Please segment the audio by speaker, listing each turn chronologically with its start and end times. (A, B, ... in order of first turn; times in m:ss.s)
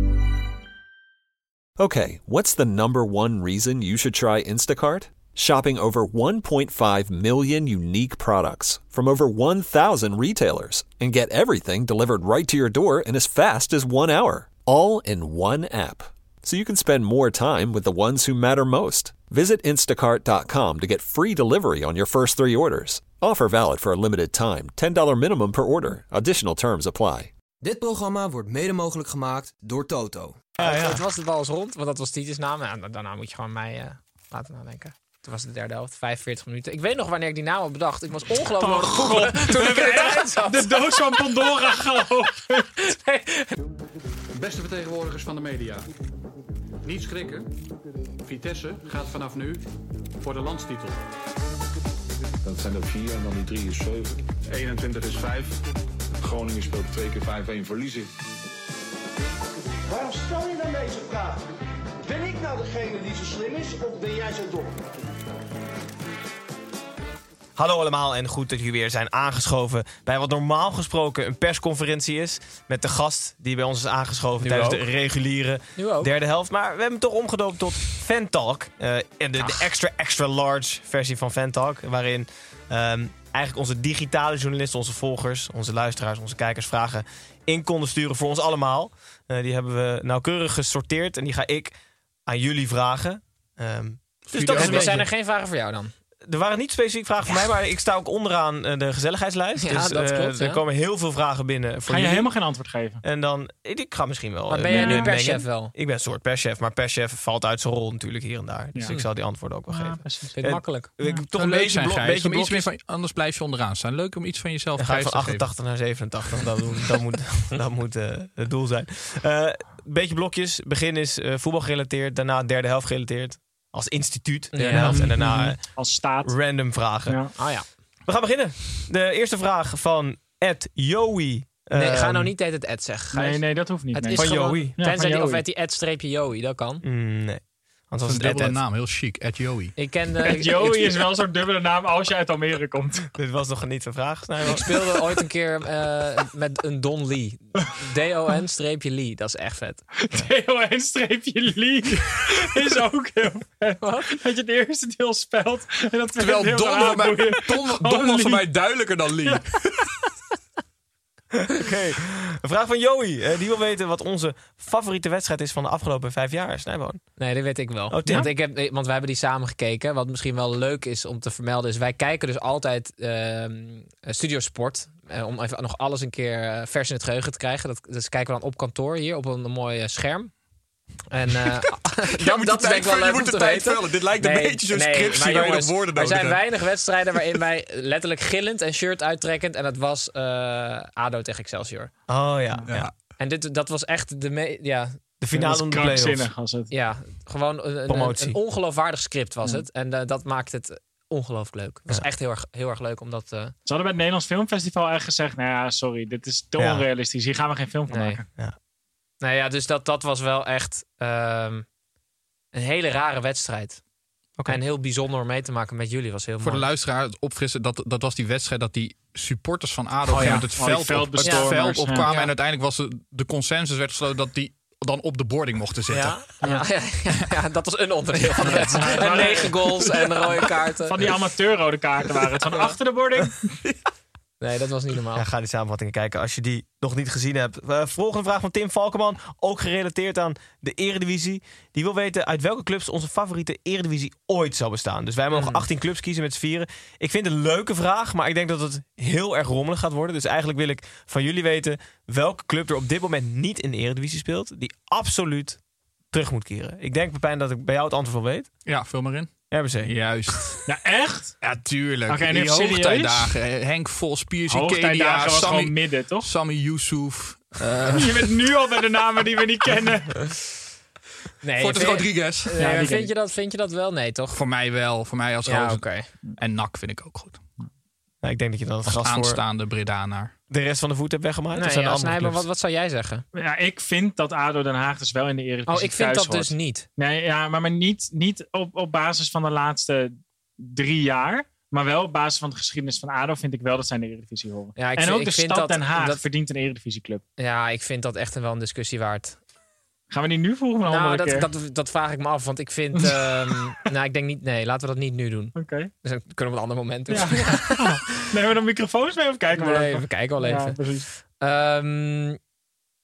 0:01.8-0:27.3 A
0:27.6-0:30.4 B
0:30.6-0:31.0 C
0:30.6-0:41.4 D
0:38.6-0:42.7 E
0:42.7-0:43.5 D
0:44.4-0:45.9 F
0:46.8-0:47.5 F
0:48.2-0:49.6 F
0:50.2-0:51.0 F
0:52.4-0:55.6 G
0:56.2-0:58.1 G
0:59.9-1:01.4 H
1:02.0-1:04.8 H
1:07.6-1:31.8 C
1:14.4-1:14.8 D
1:15.8-1:16.1 D
1:19.4-1:19.7 D
1:32.3-1:35.1 C
1:34.3-1:35.0 I
1:34.5-1:35.9 D
1:36.2-1:42.3 C
1:39.6-1:40.6 D
1:41.9-1:43.0 E
1:43.0-1:52.7 C
1:44.5-1:45.7 D
1:44.7-1:45.2 E
1:49.7-1:50.4 E
1:50.3-1:50.9 D
1:51.3-1:55.5 I
1:54.8-2:07.3 C
2:04.5-2:05.1 D
2:04.6-2:06.3 E
2:07.1-2:07.3 E
2:07.4-2:07.6 D
2:08.1-2:12.3 C
2:11.7-2:16.8 D
2:13.1-2:15.4 E
2:14.1-2:14.7 C
2:16.8-2:18.6 C
2:18.0-2:19.8 I
2:19.8-2:21.0 D
2:20.2-2:23.1 E
2:23.1-2:25.0 C
2:24.4-2:30.2 D
2:30.0-2:38.5 E
2:33.8-2:34.2 D
2:36.2-2:39.7 I
2:41.4-2:47.0 C
2:47.2-3:00.3 D
2:47.9-2:48.3 C
3:01.1-3:11.9 D
3:02.1-3:06.4 I
3:12.1-3:12.9 C
3:13.2-3:15.0 D
3:15.2-3:16.3 C
3:15.3-3:16.7 E
3:16.7-3:23.5 D
3:17.9-3:18.4 C
3:23.7-3:28.3 E
3:26.6-3:26.8 C
3:27.9-3:28.2 D
3:29.2-3:31.7 D
3:32.5-3:33.8 D
3:34.5-3:36.7 D
3:36.4-3:46.3 I
3:40.1-3:42.1 E
3:41.2-3:42.3 D
3:45.9-3:51.0 D
3:46.4-3:46.7 E
3:48.4-3:49.6 E
3:50.9-3:53.5 E
3:54.4-3:55.3 D
3:55.2-4:15.6 C
4:05.3-4:05.6 D
4:16.1-4:18.5 C
4:18.7-4:19.3 I
4:19.5-4:19.9 C
4:19.8-4:20.6 I
4:20.7-4:21.4 E
4:21.4-4:28.3 I
4:22.1-4:23.3 E
4:24.5-4:26.3 E
4:27.9-4:30.3 E
4:31.4-4:34.4 D
4:31.6-4:32.5 I
4:32.6-4:33.1 E
4:34.3-4:35.9 I
4:35.5-4:36.1 D
4:36.4-4:37.4 I
4:38.2-4:39.4 C
4:39.0-4:40.3 I
4:40.5-4:42.5 C
4:41.6-4:43.2 D
4:43.4-4:57.2 E
4:45.7-4:46.9 D
4:54.8-4:56.2 D
4:57.4-4:59.4 D
5:00.1-5:01.5 E
5:00.9-5:08.0 D
5:03.0-5:03.6 E
5:05.6-5:05.9 E
5:07.1-5:11.1 E
5:09.6-5:10.8 D
5:11.4-5:12.4 D